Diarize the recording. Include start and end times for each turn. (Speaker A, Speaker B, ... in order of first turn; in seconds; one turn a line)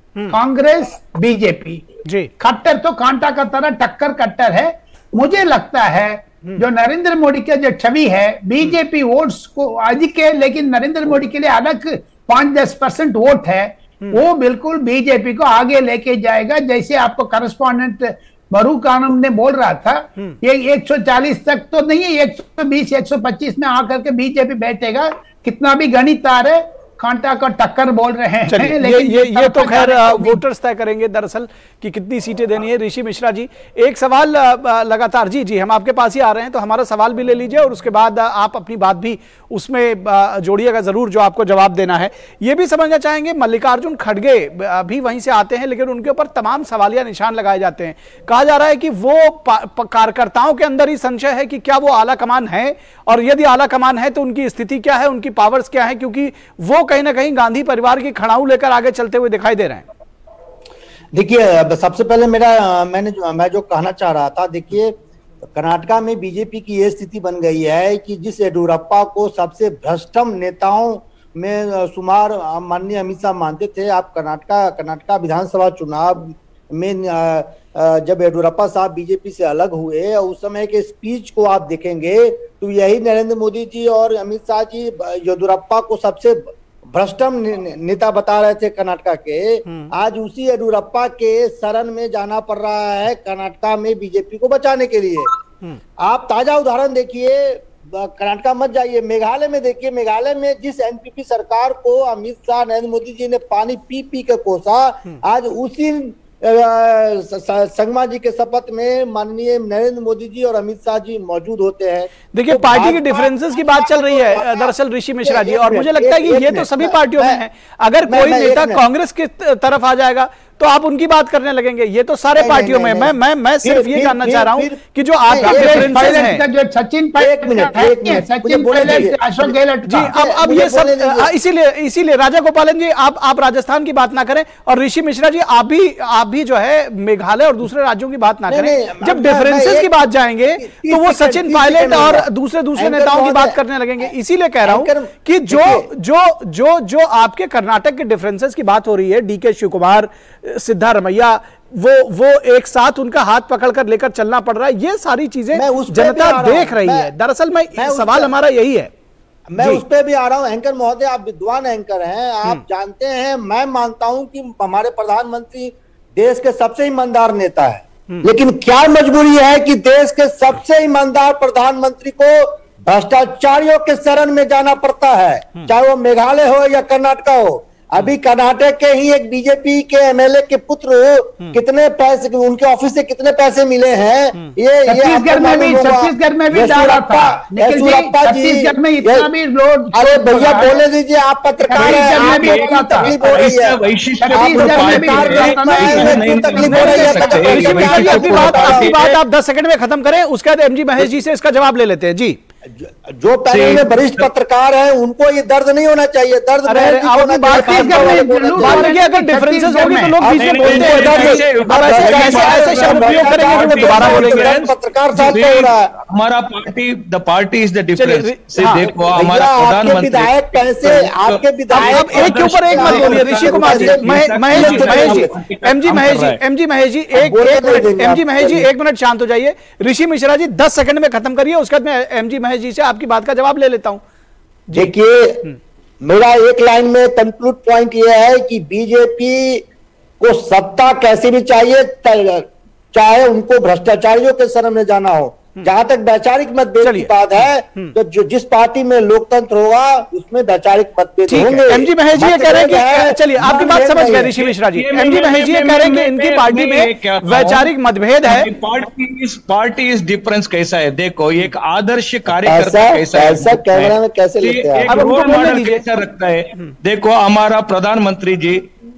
Speaker A: 0.3-30.4
Speaker B: 2.0-2.3
Speaker B: 28.5-59.9
Speaker C: 61.1-65.0
Speaker C: 65.5-95.3
Speaker C: 96.0-117.4
Speaker B: 112.3-126.4
Speaker C: 118.1-118.8
Speaker C: 122.3-126.3
Speaker A: 125.4-130.1
Speaker C: 127.2-129.6
Speaker B: 129.9-158.9
Speaker C: 130.1-131.3
Speaker C: 138.5-139.9
Speaker C: 140.6-144.1
Speaker C: 144.7-145.9
Speaker C: 155.5-157.1
Speaker C: 157.8-158.3
Speaker C: 159.5-189.3
Speaker A: 184.9-190.8
Speaker C: 189.9-193.8
Speaker A: 191.6-193.4
Speaker D: 191.9-199.2
Speaker A: 194.2-197.8
Speaker C: 194.3-198.9
Speaker B: 196.7-202.4
Speaker C: 202.8-208.9
Speaker D: 203.5-204.2
Speaker B: 206.7-214.6
Speaker A: 207.5-210.2
Speaker C: 210.2-215.9
Speaker D: 210.3-226.4
Speaker B: 218.0-218.9
Speaker C: 219.1-225.4
Speaker B: 221.7-234.0
Speaker C: 227.1-228.7
Speaker C: 234.8-235.5
Speaker C: 236.0-239.7
Speaker C: 240.2-254.3
Speaker B: 246.8-247.1
Speaker B: 251.3-258.5
Speaker D: 254.4-257.7
Speaker D: 258.2-268.7
Speaker C: 262.4-265.0
Speaker B: 264.9-265.8